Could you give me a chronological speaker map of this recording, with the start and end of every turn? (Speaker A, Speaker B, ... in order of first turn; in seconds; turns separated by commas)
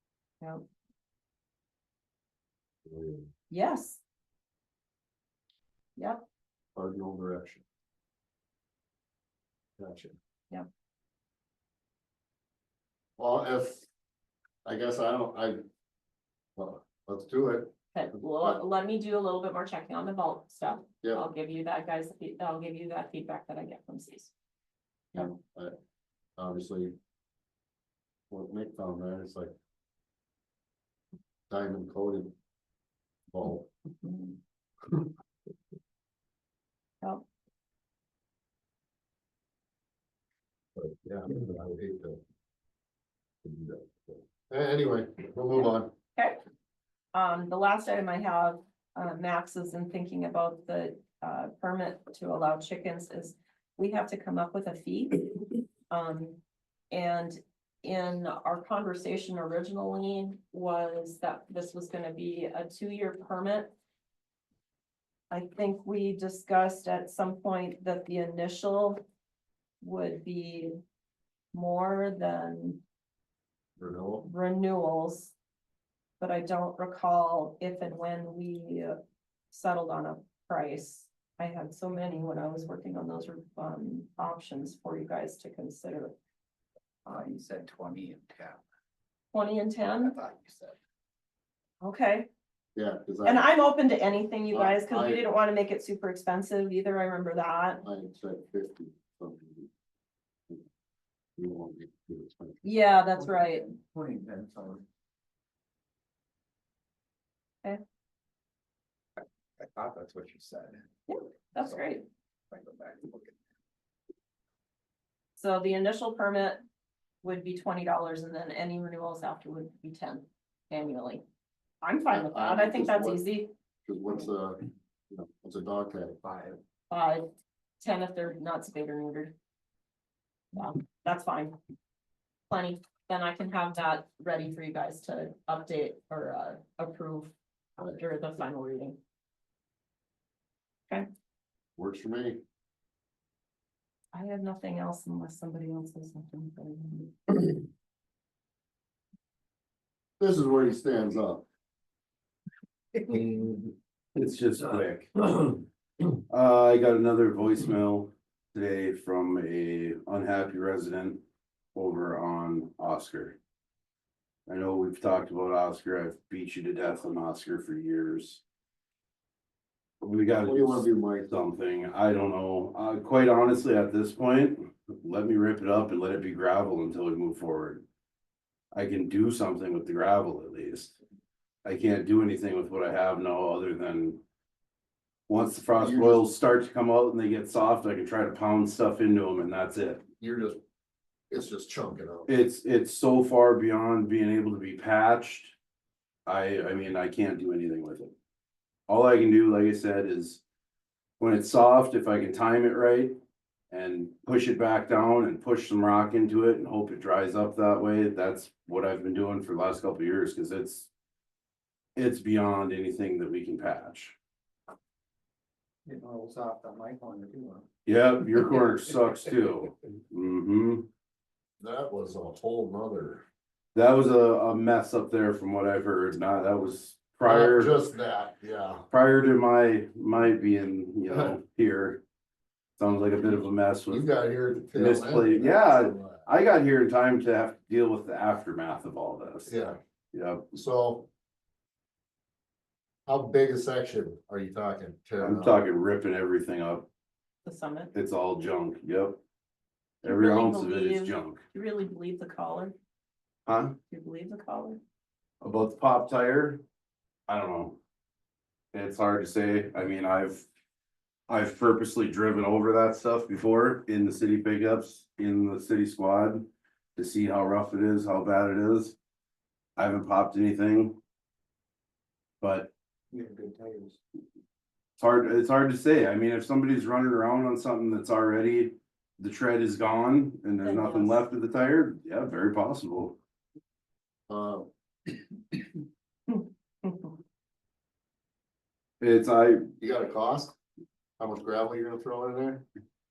Speaker A: 2.9-3.3, Speaker B: 3.5-4.0, Speaker A: 6.7-7.6, Speaker A: 9.8-10.2, Speaker A: 13.2-13.9, Speaker A: 14.6-15.6, Speaker A: 16.6-17.7, Speaker B: 17.9-24.3, Speaker A: 25.1-25.8, Speaker A: 26.4-26.9, Speaker A: 28.3-29.5, Speaker A: 31.5-32.3, Speaker A: 33.3-33.7, Speaker B: 34.0-34.4, Speaker A: 40.8-42.2, Speaker A: 43.4-45.9, Speaker B: 47.1-55.3, Speaker B: 55.9-56.4, Speaker B: 56.9-63.7, Speaker B: 65.3-69.0, Speaker B: 69.8-70.8, Speaker B: 71.5-72.8, Speaker A: 73.8-74.3, Speaker B: 74.2-75.3, Speaker B: 76.2-79.0, Speaker B: 79.5-86.1, Speaker C: 87.0-88.6, Speaker B: 89.3-90.1, Speaker C: 90.0-90.8, Speaker B: 91.8-92.3, Speaker A: 92.7-93.5, Speaker B: 93.2-97.8, Speaker A: 94.5-95.2, Speaker A: 97.8-99.7, Speaker A: 101.4-102.6, Speaker B: 102.6-103.7, Speaker C: 103.2-104.8, Speaker C: 109.6-110.9, Speaker B: 111.1-112.0, Speaker C: 111.6-111.9, Speaker C: 112.5-113.4, Speaker B: 115.3-116.6, Speaker B: 117.2-121.2, Speaker B: 121.8-123.5, Speaker A: 122.1-123.2, Speaker A: 123.8-126.2, Speaker C: 126.2-126.6, Speaker B: 126.9-127.3, Speaker B: 127.8-129.3, Speaker B: 130.5-131.5, Speaker B: 132.5-139.0, Speaker A: 141.8-142.4, Speaker B: 144.1-147.4, Speaker A: 150.2-151.4, Speaker A: 153.1-153.7, Speaker D: 154.2-155.6, Speaker D: 156.3-161.2, Speaker D: 161.7-163.4, Speaker D: 164.5-168.4, Speaker D: 170.0-177.8, Speaker A: 170.4-171.3, Speaker D: 178.7-181.0, Speaker D: 181.6-184.2, Speaker D: 185.3-190.0, Speaker A: 185.8-186.2, Speaker A: 190.2-190.6, Speaker A: 191.3-192.3, Speaker D: 192.3-195.6, Speaker D: 196.2-198.1, Speaker D: 198.9-200.4, Speaker D: 201.2-203.2, Speaker D: 203.7-210.9, Speaker D: 211.9-214.2, Speaker C: 215.8-217.7, Speaker D: 217.8-220.9, Speaker A: 221.6-223.2, Speaker D: 223.7-227.7, Speaker A: 227.2-228.8, Speaker D: 228.9-232.0, Speaker D: 232.8-234.1, Speaker A: 233.9-236.2, Speaker D: 234.7-239.5, Speaker A: 239.5-239.8, Speaker D: 240.1-240.5, Speaker A: 240.5-241.1, Speaker A: 243.1-245.6, Speaker D: 245.2-246.9, Speaker B: 247.4-247.9, Speaker D: 247.9-249.2, Speaker D: 250.0-251.4, Speaker B: 250.0-252.7, Speaker D: 253.4-253.8, Speaker B: 253.9-254.8, Speaker D: 255.4-256.6, Speaker D: 257.3-257.8, Speaker D: 258.7-260.5, Speaker D: 261.3-269.0, Speaker D: 269.8-271.0, Speaker D: 272.4-272.7, Speaker C: 273.1-274.0, Speaker D: 275.0-283.2, Speaker B: 280.6-281.2, Speaker A: 284.3-284.7, Speaker B: 286.3-287.1, Speaker D: 289.0-289.7, Speaker A: 289.8-290.6, Speaker A: 291.2-292.6